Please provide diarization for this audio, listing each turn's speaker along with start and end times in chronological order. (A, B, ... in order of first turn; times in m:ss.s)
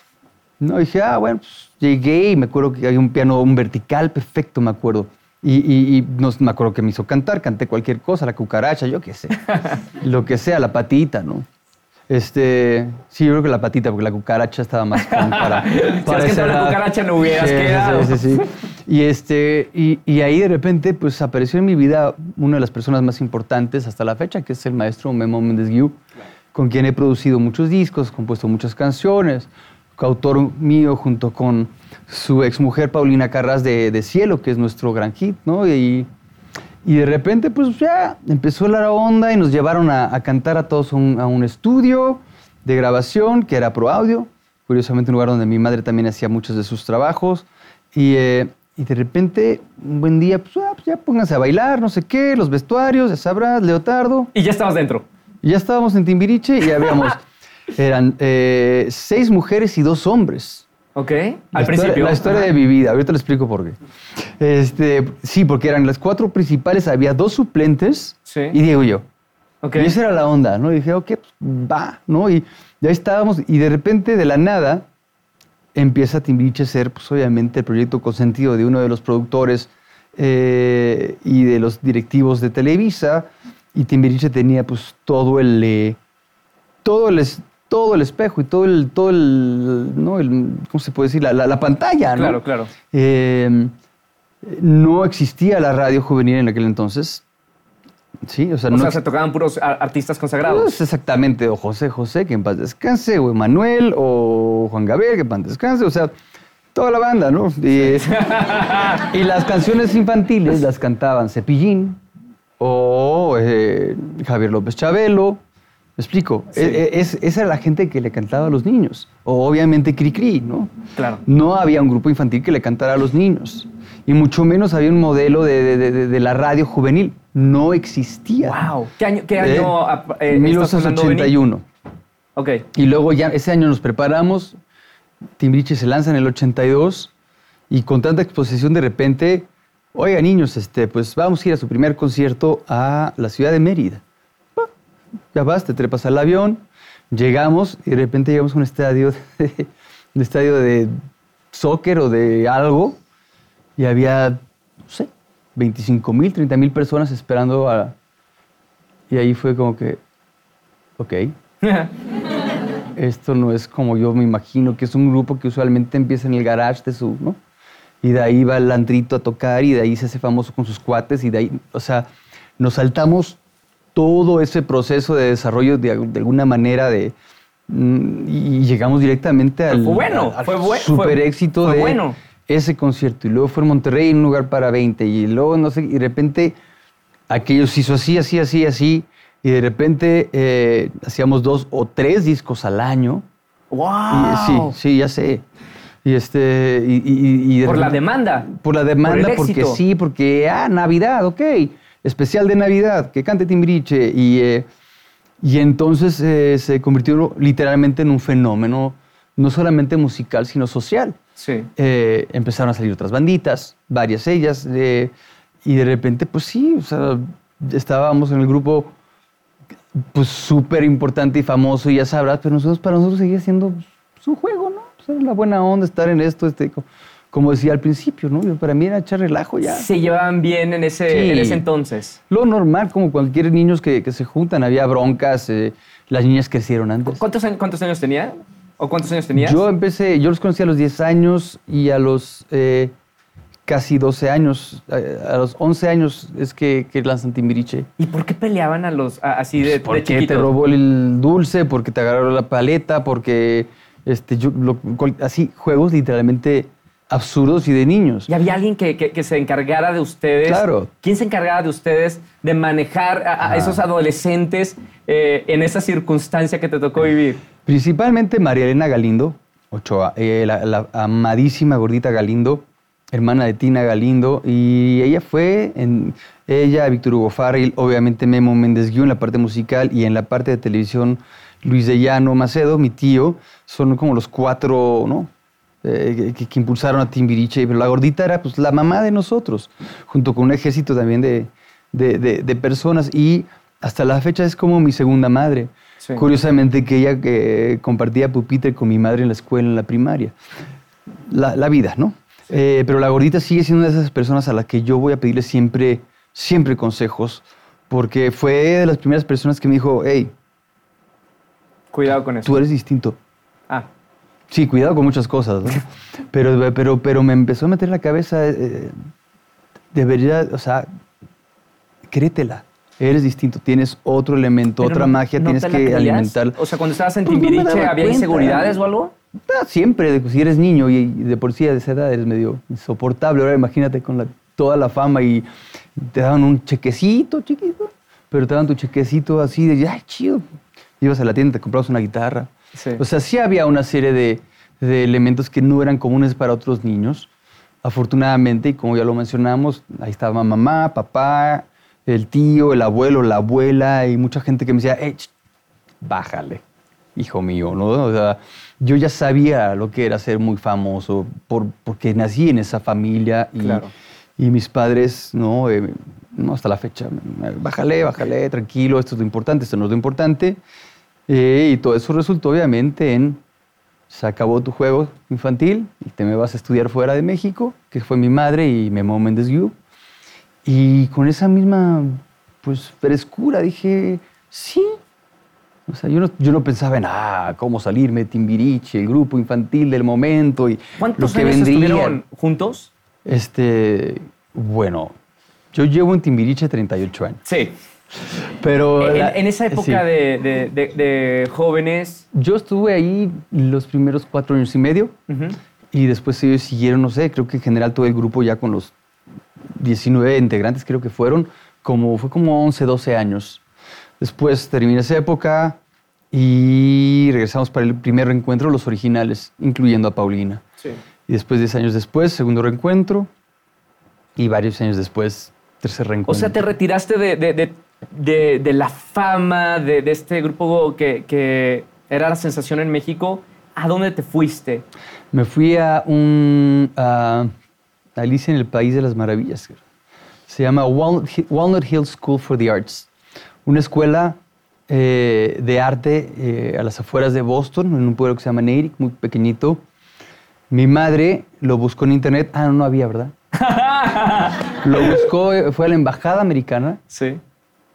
0:00.6-0:11.5 A
0:09.4-0:09.8 B
0:12.1-0:26.0 A
0:15.0-0:18.4 B
0:26.5-0:36.1 A
0:36.8-0:54.3 A
0:54.3-0:55.0 B
0:55.4-1:00.7 A
1:00.9-1:02.5 B
1:01.5-1:03.8 A
1:04.4-1:09.0 A
1:08.3-1:08.6 B
1:09.6-1:09.9 B
1:09.8-1:14.8 A
1:15.7-1:26.0 A
1:26.8-1:33.7 A
1:32.1-1:32.7 B
1:34.4-1:37.2 A
1:38.2-1:39.0 A
1:38.7-1:40.7 B
1:40.4-1:46.1 A
1:46.7-1:48.1 A
1:47.8-1:49.0 B
1:49.1-1:52.0 A
1:52.6-1:55.4 A
1:56.0-2:00.7 A
1:56.6-1:56.8 B
2:01.0-2:01.2 B
2:01.2-2:08.6 A
2:08.4-2:11.4 B
2:09.4-2:11.6 A
2:12.4-2:12.6 B
2:12.7-2:14.6 A
2:15.4-2:17.1 A
2:17.7-2:24.0 A
2:25.3-2:30.9 A
2:31.5-2:33.0 A
2:33.8-2:38.0 A
2:39.1-2:40.0 A
2:41.0-2:41.3 A
2:41.6-2:41.9 B
2:43.0-2:47.4 A
2:48.0-2:52.1 A
2:52.6-2:53.4 A
2:53.9-2:57.1 A
2:57.7-3:06.6 A
2:59.7-3:02.2 B
3:07.3-3:13.2 A
3:13.7-3:14.7 B
3:14.1-3:15.4 A
3:16.0-3:24.7 A
3:17.6-3:18.5 B
3:19.0-3:19.8 B
3:25.4-3:31.2 A
3:31.4-3:31.7 B
3:31.8-3:35.1 A
3:35.6-3:38.9 A
3:40.0-3:49.9 A
3:49.6-3:52.2 B
3:51.1-3:51.6 A
3:52.3-3:57.2 A
3:57.1-3:59.6 B
3:59.4-4:02.9 A
4:03.6-4:07.9 A
4:08.0-4:10.5 B
4:09.6-4:18.3 A
4:18.3-4:27.4 B
4:20.4-4:20.9 A
4:23.4-4:23.8 A
4:27.6-4:45.3 A
4:45.8-5:00.3 A
5:01.3-5:10.3 A
5:11.9-5:12.6 B
5:12.4-5:13.2 A
5:14.5-5:18.9 A
5:19.9-5:20.9 A
5:22.1-5:26.6 A
5:24.8-5:29.1 B
5:27.2-5:28.8 A
5:29.4-5:40.4 A
5:41.0-5:47.3 A
5:42.7-5:43.0 B
5:47.8-5:55.3 A
5:56.0-5:56.6 A
5:57.2-6:03.8 A
6:03.6-6:03.9 B
6:04.4-6:10.6 A
6:11.3-6:13.4 A
6:14.1-6:19.7 A
6:20.6-6:25.0 A
6:25.9-6:32.2 A
6:31.0-6:32.9 B
6:33.2-6:35.1 A
6:35.7-6:37.4 A
6:37.4-6:37.7 B
6:38.4-6:40.0 A
6:39.0-6:42.2 B
6:42.3-6:45.1 A
6:45.3-6:45.6 B
6:45.9-6:48.9 A
6:49.8-6:53.6 A
6:54.2-6:55.8 A
6:56.3-7:00.6 A
7:01.3-7:03.3 A
7:04.4-7:06.6 A
7:06.2-7:14.8 B
7:15.3-7:17.5 A
7:18.2-7:19.8 A
7:20.5-7:23.1 A
7:23.6-7:24.4 A
7:24.9-7:29.8 A
7:30.7-7:33.3 A
7:33.5-7:35.2 B
7:34.8-7:37.0 A
7:37.1-7:37.4 B